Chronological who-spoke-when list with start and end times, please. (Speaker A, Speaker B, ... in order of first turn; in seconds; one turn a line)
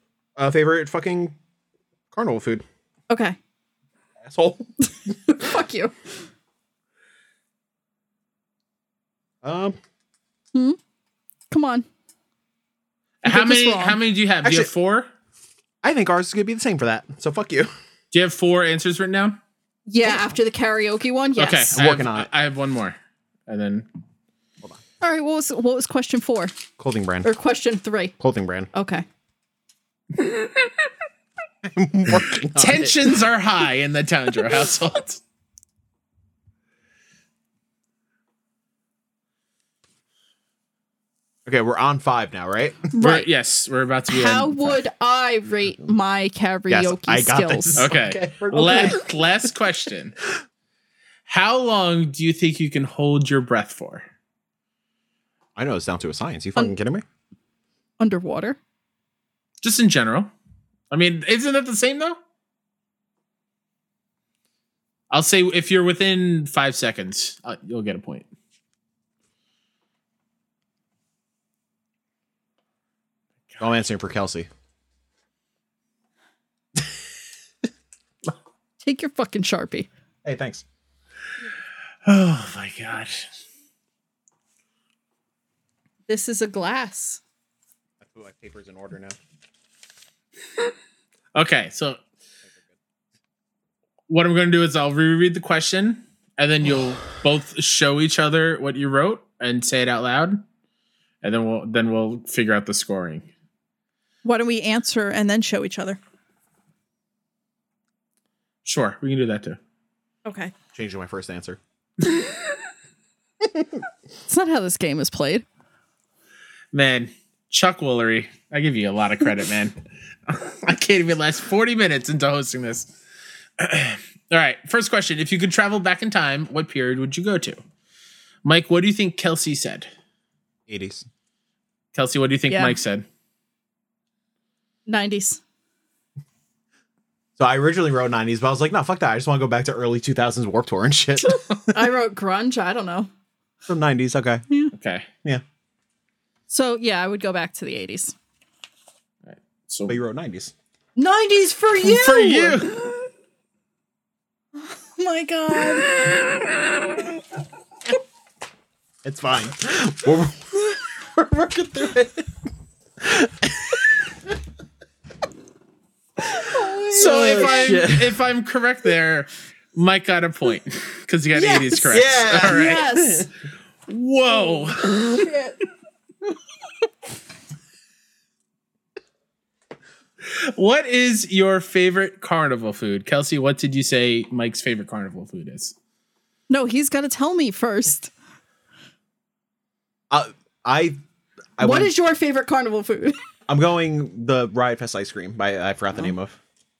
Speaker A: 0.4-1.4
Speaker A: 2.1-2.6
Speaker B: 3.1-3.4
Speaker A: 4.2-4.7
Speaker B: 5.2-6.1
Speaker A: 9.4-9.8
Speaker B: 11.5-11.8
Speaker C: 13.2-15.1
Speaker B: 13.2-14.0
Speaker A: 14.4-14.7
Speaker A: 15.8-17.7
Speaker C: 18.1-19.4
Speaker B: 19.9-21.8
Speaker C: 21.4-22.9
Speaker A: 21.7-22.3
Speaker C: 23.5-23.9
Speaker B: 25.0-26.5
Speaker A: 26.8-27.3
Speaker B: 27.2-28.1
Speaker A: 28.2-28.7
Speaker B: 28.7-29.0
Speaker C: 30.2-30.7
Speaker A: 31.6-32.9
Speaker C: 32.5-35.2
Speaker A: 41.5-42.9
Speaker B: 42.9-43.3
Speaker C: 43.0-44.8
Speaker B: 44.1-47.8
Speaker A: 46.7-49.0
Speaker C: 47.8-50.2
Speaker C: 51.3-54.0
Speaker A: 55.5-57.0
Speaker B: 58.0-58.6
Speaker C: 59.6-60.3
Speaker C: 60.9-62.2
Speaker C: 65.1-68.3
Speaker A: 73.6-74.5
Speaker B: 78.8-79.9
Speaker A: 80.2-80.6
Speaker C: 82.0-83.2
Speaker B: 86.1-87.2
Speaker A: 88.0-89.2
Speaker C: 91.3-92.0
Speaker C: 94.1-100.4
Speaker C: 101.2-103.3
Speaker B: 104.2-106.0
Speaker C: 108.6-109.6
Speaker B: 110.2-110.5
Speaker A: 110.7-111.6
Speaker B: 114.3-115.4
Speaker C: 116.7-122.9
Speaker C: 123.6-127.6
Speaker C: 128.4-129.9
Speaker A: 130.7-131.1
Speaker C: 131.9-133.0
Speaker B: 132.5-132.8
Speaker B: 134.9-135.4
Speaker A: 137.4-141.8
Speaker B: 141.7-143.1
Speaker A: 143.7-144.4
Speaker C: 144.7-145.1
Speaker B: 146.5-148.1
Speaker C: 149.2-150.0
Speaker A: 149.9-150.5
Speaker B: 150.9-152.7
Speaker C: 151.8-152.9
Speaker B: 154.6-155.9
Speaker A: 159.0-162.3
Speaker A: 163.0-163.8
Speaker B: 166.3-167.8
Speaker C: 166.9-172.9
Speaker A: 166.9-168.2
Speaker B: 171.3-173.3
Speaker A: 171.9-173.2
Speaker C: 173.9-175.3
Speaker B: 174.3-175.6
Speaker C: 180.2-185.7
Speaker B: 186.5-188.1
Speaker A: 190.1-191.0
Speaker A: 191.6-191.9
Speaker B: 191.6-193.2
Speaker A: 193.5-196.4